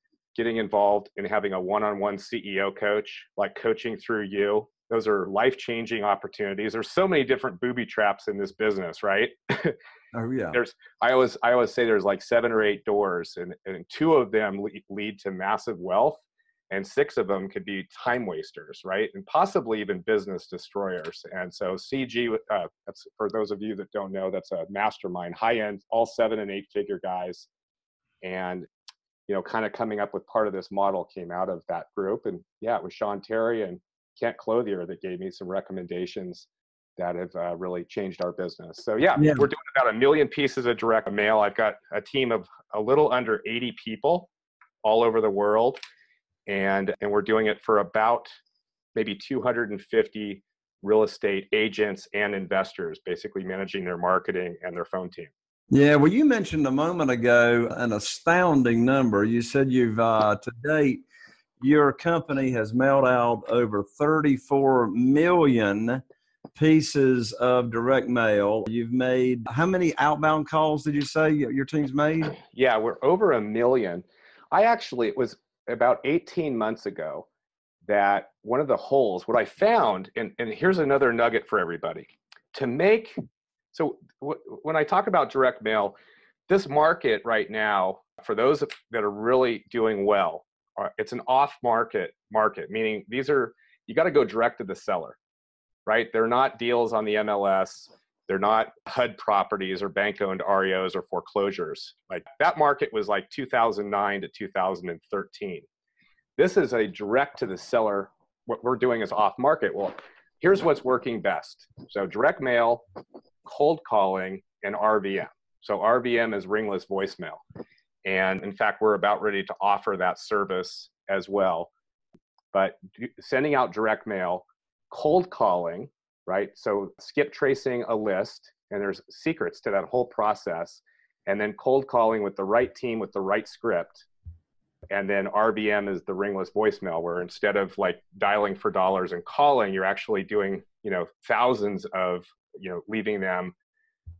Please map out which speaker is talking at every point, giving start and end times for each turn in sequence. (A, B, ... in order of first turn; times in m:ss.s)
0:00.4-0:09.8 A
0:10.1-0:10.6 B
0:10.5-0:27.5 A
0:28.2-0:28.7 A
0:29.3-0:44.3 A
0:39.2-0:39.5 B
0:44.8-0:45.8 A
0:46.5-0:48.3 A
0:49.0-0:55.3 A
0:55.7-1:01.0 B
1:01.6-1:06.0 B
1:06.6-1:12.4 B
1:12.4-1:17.3 A
1:17.9-1:23.2 A
1:23.7-1:26.0 A
1:26.5-1:35.2 A
1:35.9-1:45.6 A
1:46.4-1:52.8 A
1:53.4-1:57.4 A
1:58.0-2:01.7 A
2:02.5-2:14.1 A
2:14.9-2:23.5 A